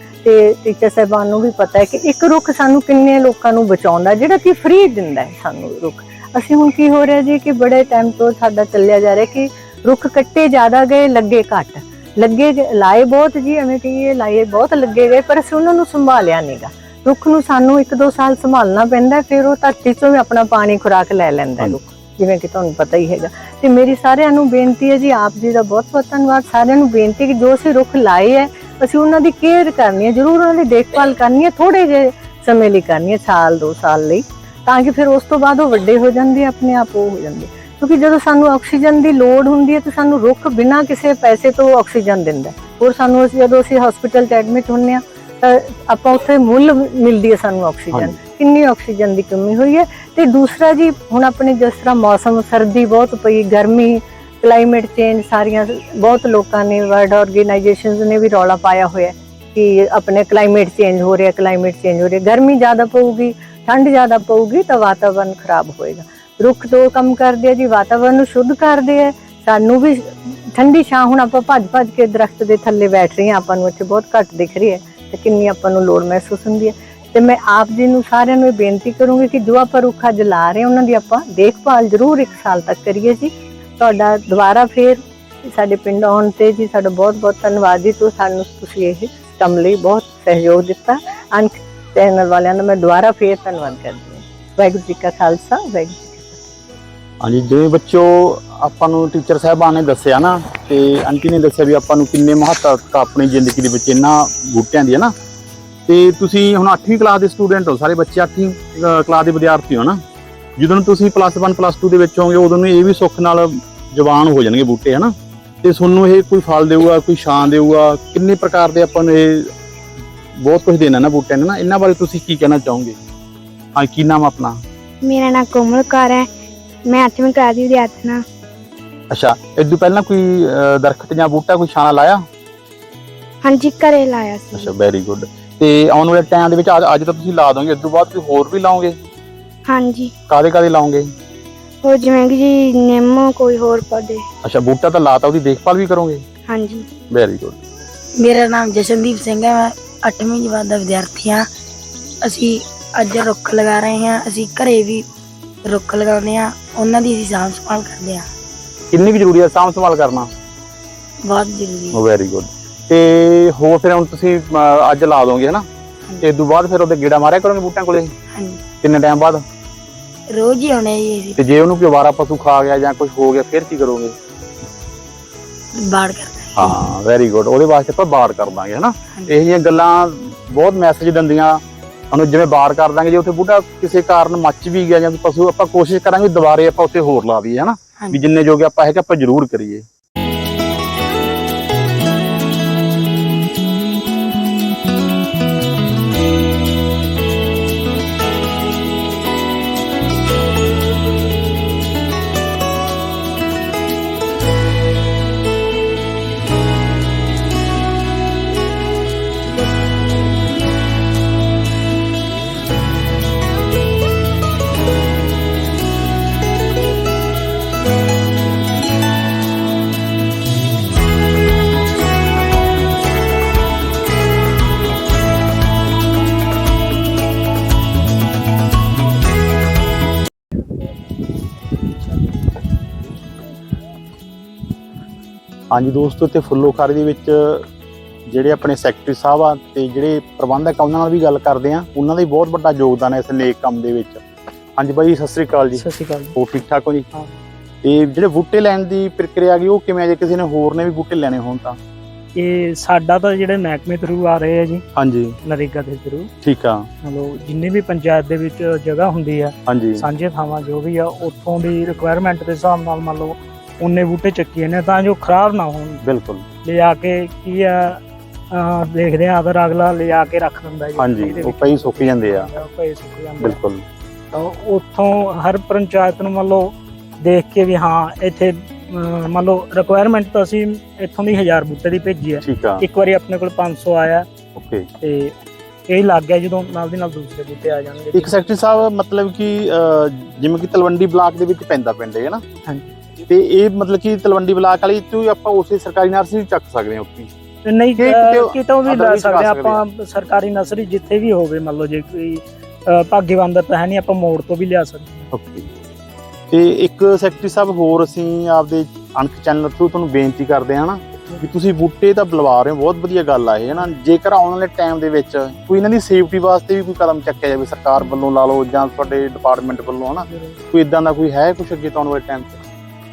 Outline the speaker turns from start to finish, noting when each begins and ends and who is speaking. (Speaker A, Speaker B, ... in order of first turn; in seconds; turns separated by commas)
Speaker A: 0.2-96.4, Speaker B: 47.9-48.2, Speaker B: 97.2-105.1, Speaker B: 105.9-110.0, Speaker B: 110.6-115.1, Speaker B: 115.6-119.5, Speaker B: 120.4-123.0, Speaker B: 123.8-124.6, Speaker C: 125.0-126.3, Speaker C: 126.8-128.2, Speaker B: 129.1-132.2, Speaker C: 133.4-134.7, Speaker B: 134.5-138.9, Speaker C: 139.7-140.1, Speaker B: 140.3-141.1, Speaker C: 141.8-144.2, Speaker B: 144.4-146.2, Speaker C: 146.5-146.9, Speaker B: 147.1-147.6, Speaker D: 148.2-151.4, Speaker D: 153.0-155.0, Speaker D: 155.7-158.2, Speaker B: 158.9-160.3, Speaker D: 161.3-162.0, Speaker B: 161.9-165.7, Speaker B: 166.2-168.1, Speaker B: 168.8-169.4, Speaker D: 170.3-171.3, Speaker B: 171.4-174.1, Speaker D: 175.9-176.8, Speaker B: 176.6-189.8, Speaker B: 235.7-237.6, Speaker B: 238.3-244.2, Speaker B: 244.8-247.1, Speaker E: 245.7-246.3, Speaker B: 247.8-251.8, Speaker E: 252.3-254.8, Speaker B: 254.9-255.3, Speaker E: 255.4-256.3, Speaker B: 256.4-256.9, Speaker E: 257.0-266.0, Speaker B: 259.7-260.0, Speaker B: 266.0-266.4, Speaker E: 266.6-268.0, Speaker E: 268.5-273.6, Speaker B: 271.0-272.5, Speaker B: 273.4-273.8, Speaker E: 274.3-284.3, Speaker B: 282.4-282.8, Speaker B: 284.6-284.9, Speaker E: 285.0-285.3, Speaker E: 285.9-288.4, Speaker B: 288.1-292.4, Speaker E: 292.6-292.9, Speaker B: 293.3-297.3, Speaker E: 297.6-305.3, Speaker B: 297.9-299.8, Speaker B: 305.3-305.7, Speaker B: 306.5-322.6, Speaker E: 320.2-320.6